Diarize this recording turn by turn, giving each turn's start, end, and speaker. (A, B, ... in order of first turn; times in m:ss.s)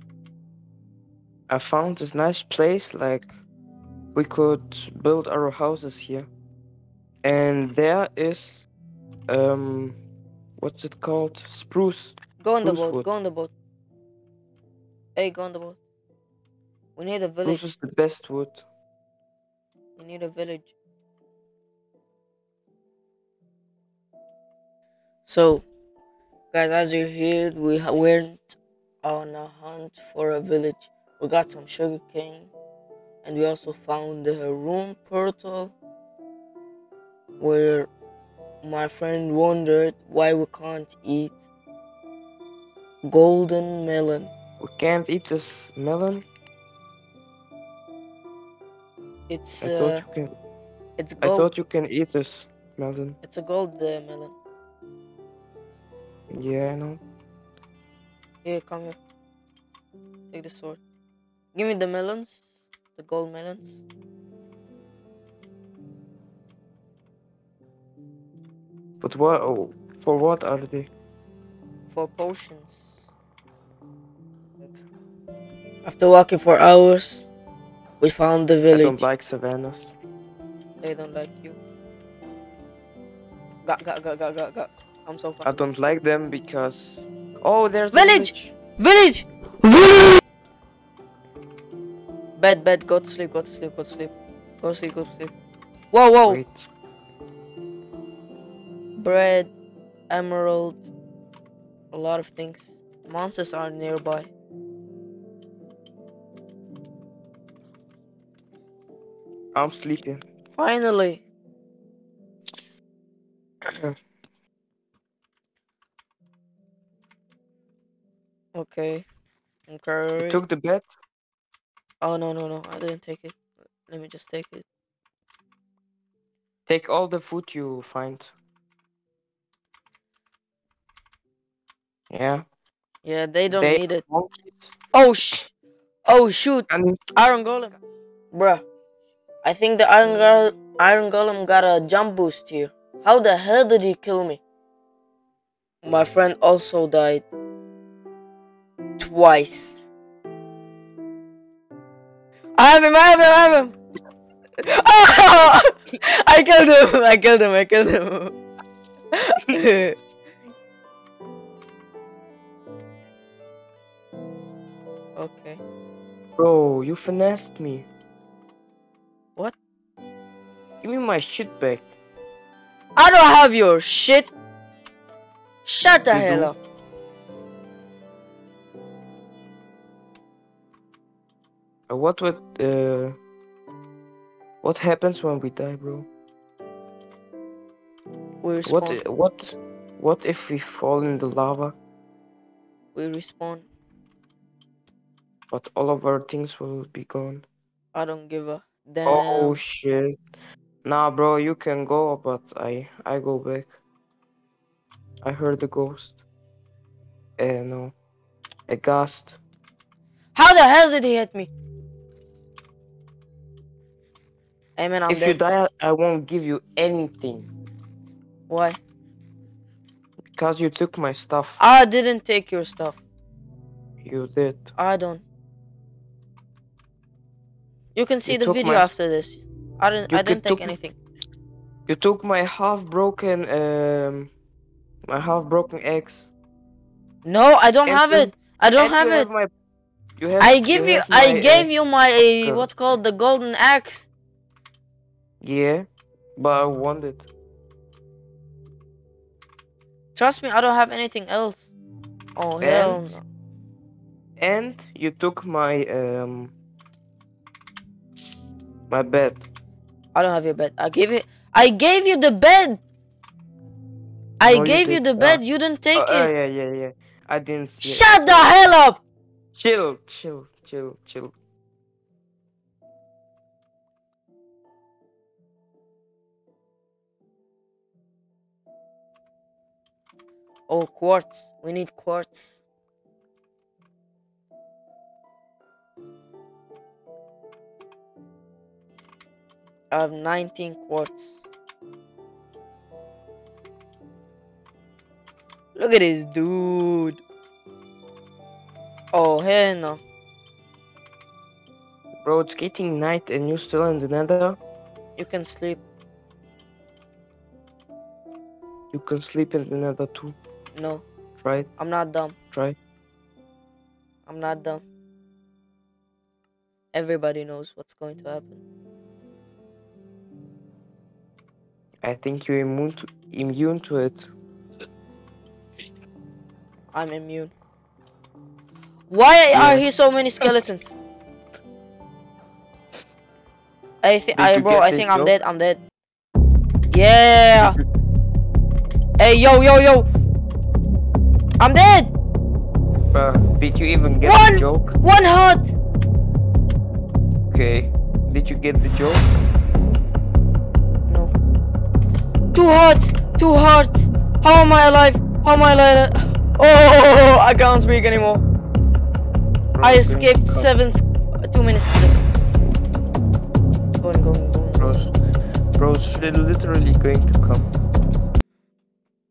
0:01.5-0:03.3 A
0:04.1-0:06.3 A
0:07.2-0:08.7 A
0:09.3-0:10.0 A
0:10.6-0:13.1 A
0:12.4-0:13.5 B
0:15.2-0:15.8 B
0:17.0-0:17.7 B
0:17.4-0:18.6 A
0:20.0-0:20.7 B
0:25.2-0:25.6 B
0:26.5-0:32.5 B
0:33.2-0:35.7 B
0:37.4-0:37.9 B
0:38.6-0:41.5 B
0:43.0-0:44.3 B
0:44.6-0:46.2 A
0:49.3-0:50.0 B
0:49.6-0:50.3 A
0:51.0-0:51.5 B
0:51.2-0:53.2 A
0:53.2-0:54.3 B
0:56.3-0:57.0 A
0:58.4-0:59.0 B
1:00.3-1:00.8 B
1:01.5-1:03.8 B
1:09.0-1:10.9 A
1:11.9-1:13.1 B
1:14.6-1:14.8 A
1:15.8-1:17.3 B
1:18.0-1:19.0 B
1:18.7-1:19.9 A
1:20.8-1:21.6 B
1:23.6-1:25.6 B
1:25.4-1:28.5 A
1:27.9-1:30.2 B
1:32.4-1:35.3 B
1:35.9-1:36.4 B
1:36.2-1:36.7 A
1:39.0-1:39.5 B
1:40.1-1:40.9 B
1:41.9-1:44.3 B
1:49.5-1:50.2 A
1:50.5-1:51.2 B
1:53.7-1:53.9 A
1:58.5-1:59.0 B
1:59.7-2:00.4 B
2:00.2-2:00.9 A
2:02.0-2:04.6 B
2:06.7-2:08.3 A
2:12.1-2:12.4 A
2:13.0-2:14.0 B
2:13.5-2:14.8 A
2:14.9-2:15.5 B
2:16.1-2:17.7 B
2:16.7-2:17.0 A
2:18.3-2:18.6 B
2:19.4-2:24.4 B
2:25.8-2:27.2 B
2:29.0-2:29.9 B
2:32.6-2:33.8 B
2:34.6-2:38.3 B
2:39.1-2:40.0 B
2:45.2-2:45.6 B
2:46.4-2:47.9 A
2:50.8-2:51.9 A
2:53.0-2:54.3 B
2:55.6-2:56.6 B
2:56.1-2:56.5 A
3:01.9-3:03.2 A
3:04.6-3:06.1 A
3:08.4-3:09.0 B
3:08.6-3:11.7 A
3:12.9-3:13.7 B
3:15.5-3:17.4 A
3:17.9-3:19.6 B
3:19.0-3:20.2 A
3:20.8-3:23.8 A
3:25.2-3:26.2 A
3:27.4-3:27.9 A
3:28.7-3:29.4 A
3:30.3-3:31.5 B
3:34.8-3:35.4 B
3:35.1-3:37.5 A
3:38.5-3:38.8 B
3:40.3-3:41.6 A
3:41.6-3:43.0 B
3:44.0-3:44.7 A
3:44.8-3:45.2 B
3:47.9-3:51.0 B
3:48.2-3:48.9 A
3:50.1-3:50.7 A
3:51.9-3:54.3 A
3:55.1-3:56.3 A
3:57.2-3:59.3 B
3:57.8-3:59.5 A
4:00.2-4:01.7 A
4:00.4-4:04.1 B
4:02.4-4:02.7 A
4:05.4-4:07.3 A
4:10.1-4:11.7 B
4:12.4-4:13.2 B
4:12.6-4:13.2 A
4:14.4-4:16.5 A
4:18.9-4:19.4 A
4:20.1-4:22.8 B
4:24.4-4:26.3 B
4:24.4-4:25.4 A
4:25.9-4:28.7 A
4:27.8-4:29.0 B
4:29.5-4:31.3 A
4:40.7-4:42.6 B
4:49.9-4:51.4 B
4:55.7-4:57.2 B
4:59.1-5:00.0 B
5:02.2-5:04.6 A
5:05.2-5:05.8 B
5:08.9-5:10.4 A
5:10.7-5:11.0 B
5:11.4-5:11.7 A
5:11.8-5:12.4 B
5:14.2-5:14.8 B
5:16.9-5:18.6 B
5:22.0-5:24.3 A
5:26.9-5:27.5 B
5:29.1-5:30.9 B
5:29.5-5:29.8 A
5:34.0-5:35.8 B
5:34.4-5:35.3 A
5:36.9-5:37.8 B
5:39.2-5:40.1 B
5:41.6-5:42.1 B
5:43.1-5:45.0 A
5:44.2-5:45.7 B
5:47.5-5:49.3 A
5:51.1-5:51.3 B
5:52.5-5:58.4 B
5:59.7-6:00.7 A
5:59.8-6:02.5 B
6:04.0-6:05.0 B
6:04.8-6:05.1 A
6:05.8-6:07.7 A